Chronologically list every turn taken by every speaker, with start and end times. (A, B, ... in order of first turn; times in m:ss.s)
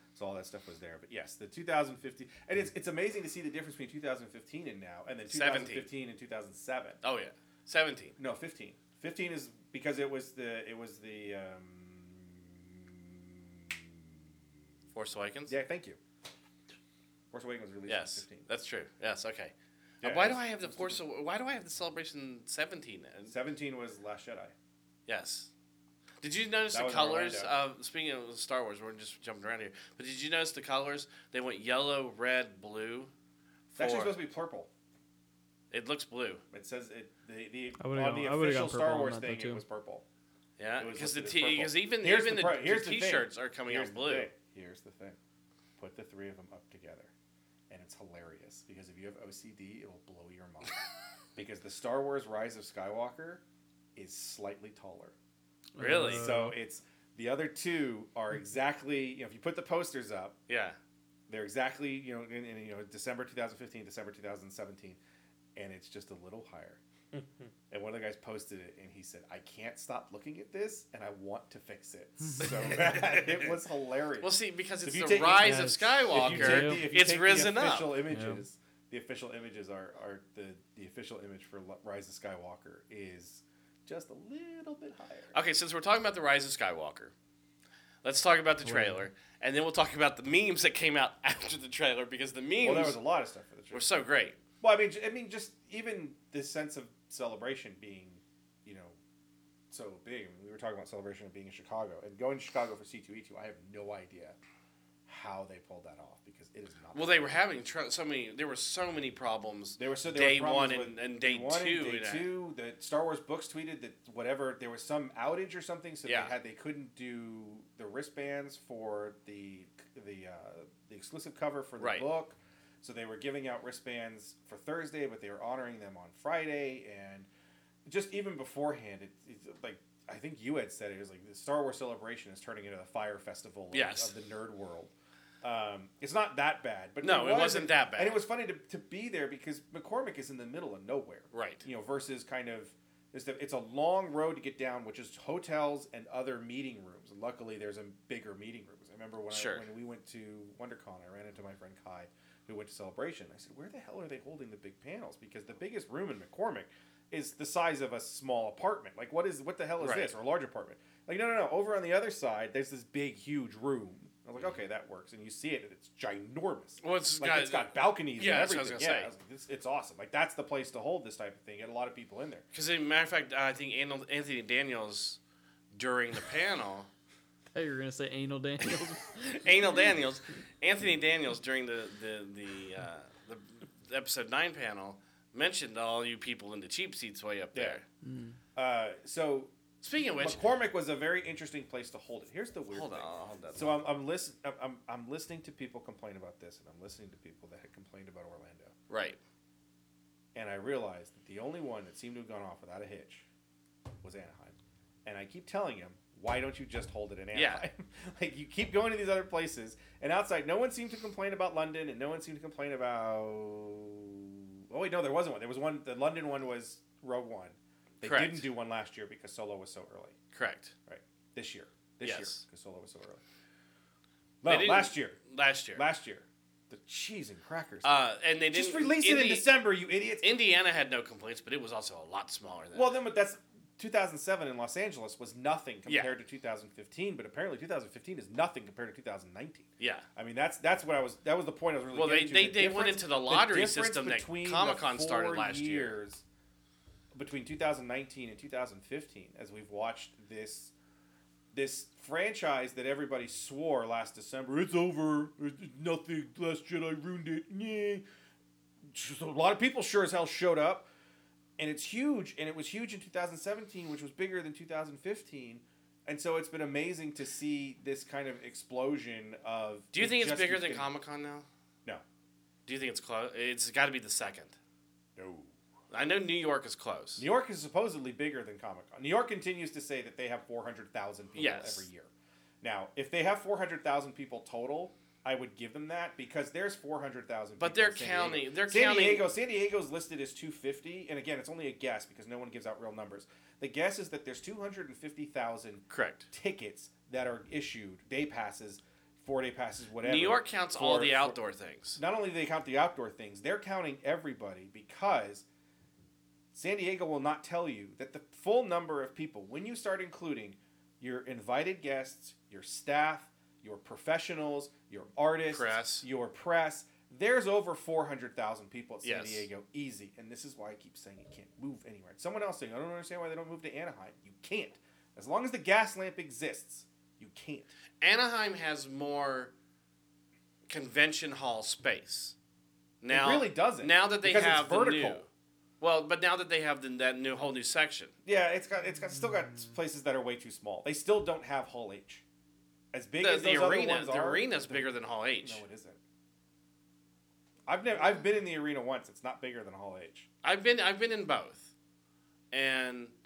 0:00.2-0:07.0 A
0:05.3-0:05.9 B
0:07.0-0:08.2 B
0:08.2-0:14.1 A
0:14.9-0:15.6 B
0:15.5-0:16.0 A
0:17.3-0:18.5 A
0:17.9-0:23.4 B
0:20.0-0:21.0 A
0:23.3-0:24.5 A
0:25.1-0:25.5 B
0:26.2-0:33.1 B
0:26.7-0:27.5 A
0:33.7-0:34.2 B
0:33.8-0:34.7 A
0:35.7-0:36.4 B
0:36.5-0:40.0 A
0:37.8-0:39.6 C
0:40.6-0:44.3 B
0:40.8-0:45.2 A
0:45.8-0:47.1 A
0:47.7-0:50.8 A
0:51.4-0:53.4 A
0:54.0-0:55.2 A
0:55.8-0:56.6 C
0:55.8-0:56.3 B
0:56.0-1:00.4 A
1:00.5-1:00.8 B
1:01.3-1:05.0 A
1:05.6-1:06.8 A
1:07.7-1:25.4 A
1:12.2-1:12.5 C
1:14.2-1:18.0 B
1:15.4-1:16.9 C
1:18.1-1:18.4 C
1:25.3-1:27.1 B
1:28.0-1:33.0 B
1:28.6-1:29.1 C
1:32.6-1:34.0 A
1:33.7-1:34.4 B
1:34.6-1:39.0 A
1:39.7-1:44.4 A
1:45.1-1:47.3 A
1:46.9-1:52.3 B
1:49.8-2:07.3 A
1:56.0-1:56.3 B
2:01.8-2:02.1 B
2:07.9-2:52.5 A
2:13.7-2:14.1 B
2:17.0-2:18.2 B
2:21.3-2:21.6 B
2:29.3-2:29.7 B
2:39.8-2:40.2 B
2:46.8-2:49.1 B
2:52.5-2:55.2 B
2:55.7-2:56.9 B
2:57.5-2:59.4 C
2:59.4-3:07.8 B
3:07.5-3:07.8 A
3:08.0-3:08.4 C
3:08.6-3:09.5 A
3:09.8-3:10.4 B
3:10.1-3:18.7 A
3:12.7-3:13.8 B
3:18.9-3:19.2 B
3:20.3-3:23.3 A
3:24.0-3:40.2 A
3:27.3-3:27.6 B
3:38.0-3:38.5 B
3:40.3-3:40.7 B
3:40.9-3:43.2 A
3:42.0-3:42.4 B
3:44.4-3:45.2 A
3:44.4-3:45.8 B
3:45.8-3:47.9 A
3:47.8-3:49.5 B
3:48.5-3:50.3 A
3:50.2-3:53.0 B
3:52.7-4:06.2 A
3:55.9-3:56.1 B
3:59.8-4:00.1 B
4:01.9-4:06.0 B
4:07.1-4:10.7 A
4:11.5-4:18.0 A
4:18.9-4:20.9 A
4:21.6-4:30.9 A
4:29.9-4:31.5 B
4:32.7-4:34.6 B
4:35.2-4:35.5 A
4:35.9-4:37.3 B
4:37.2-4:42.1 A
4:41.4-4:41.9 B
4:42.6-5:01.4 A
4:47.6-4:49.3 B
4:55.9-4:56.3 B
5:00.0-5:02.0 B
5:02.0-5:05.4 A
5:06.5-5:27.7 A
5:15.5-5:16.1 B
5:19.0-5:19.5 B
5:28.0-5:29.5 B
5:30.7-5:32.4 B
5:33.0-5:35.3 B
5:33.1-5:35.3 A
5:35.8-5:38.1 B
5:38.2-5:42.2 A
5:42.9-5:46.0 A
5:43.2-5:45.6 B
5:47.7-5:50.3 A
5:50.4-5:51.7 B
5:52.5-5:53.1 B